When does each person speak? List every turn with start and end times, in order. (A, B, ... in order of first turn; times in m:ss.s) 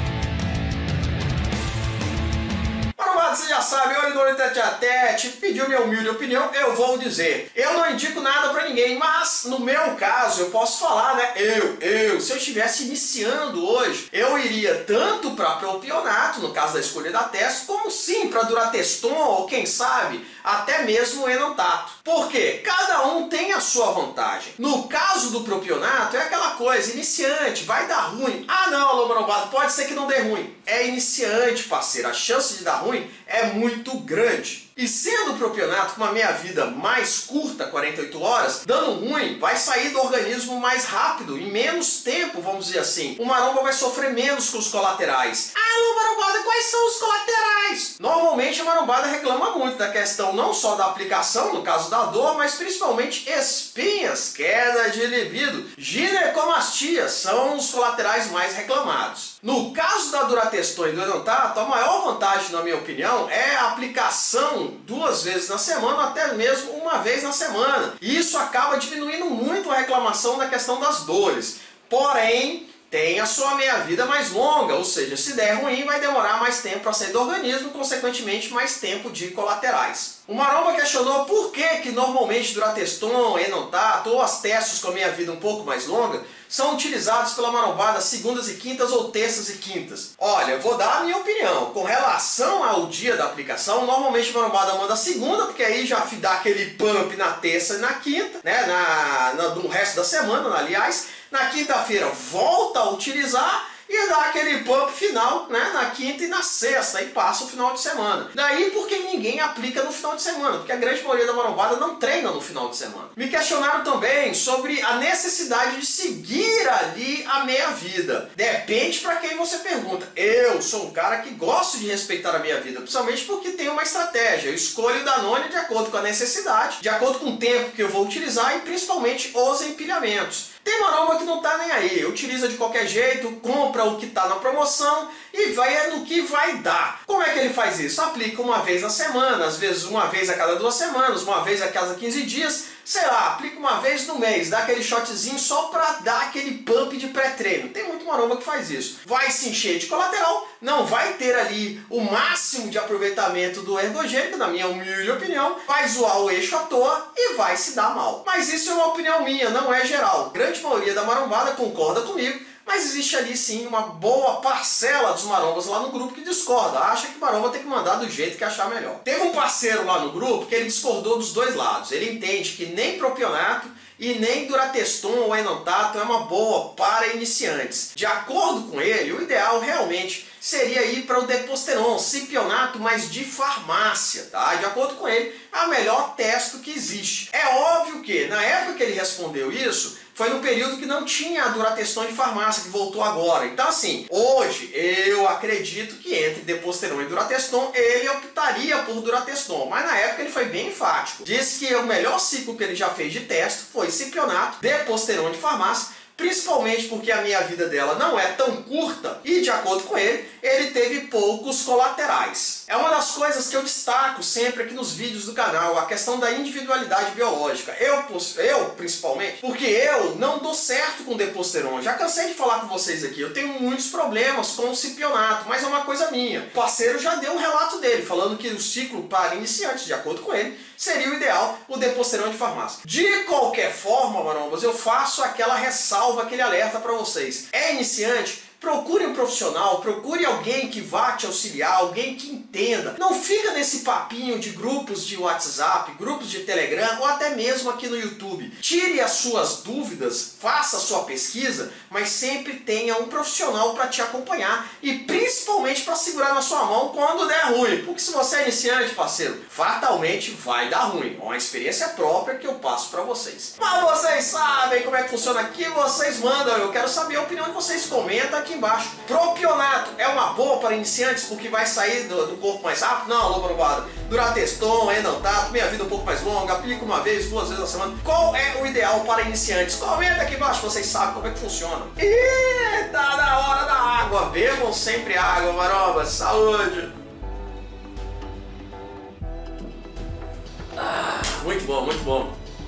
0:03.0-4:46.9 A
4:50.7-4:52.3 A